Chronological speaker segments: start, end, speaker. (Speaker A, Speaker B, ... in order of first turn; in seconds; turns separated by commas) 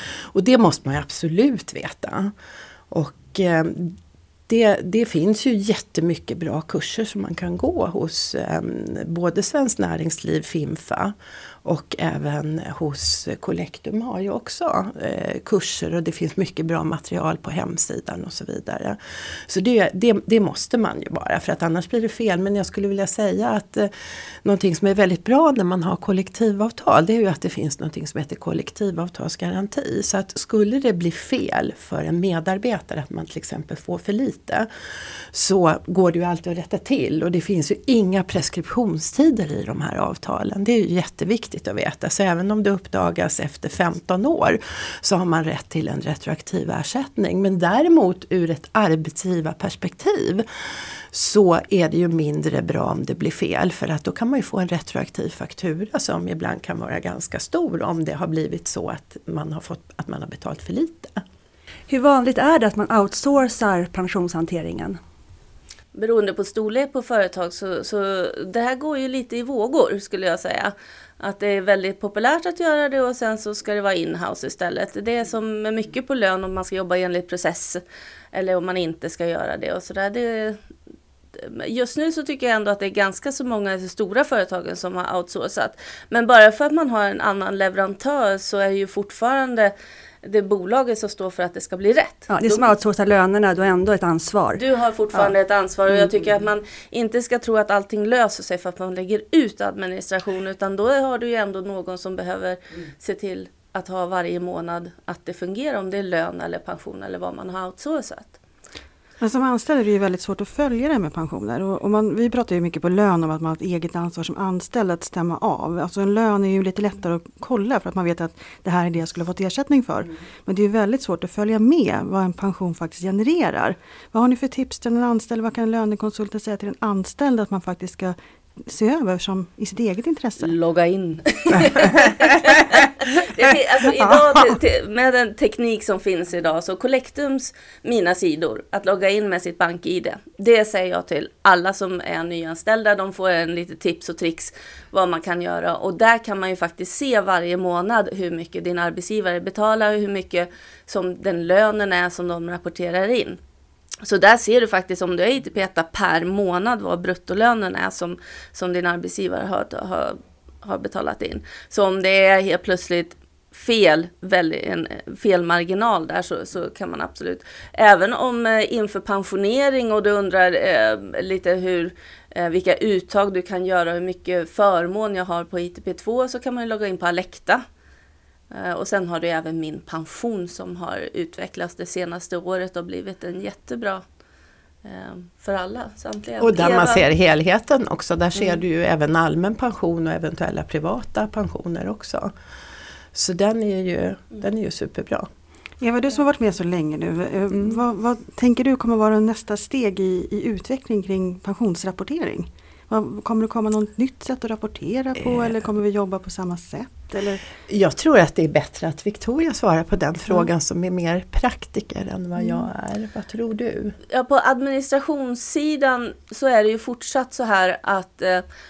Speaker A: 0.3-2.3, Speaker A: 2.9-4.0, Speaker A: 4.5-11.1, Speaker A: 11.6-19.0, Speaker A: 19.5-23.9, Speaker A: 24.4-34.7, Speaker A: 35.3-50.5, Speaker A: 51.1-61.2, Speaker B: 61.9-65.0, Speaker C: 66.0-77.8, Speaker C: 78.3-80.6, Speaker C: 81.4-92.7, Speaker B: 92.3-94.6, Speaker C: 94.6-108.3, Speaker D: 109.2-130.6, Speaker C: 130.4-153.4, Speaker C: 154.0-177.6, Speaker C: 178.5-184.0, Speaker C: 184.8-187.1, Speaker A: 186.4-192.3, Speaker A: 193.1-195.3, Speaker D: 195.8-207.4, Speaker A: 207.7-214.0, Speaker C: 214.1-218.4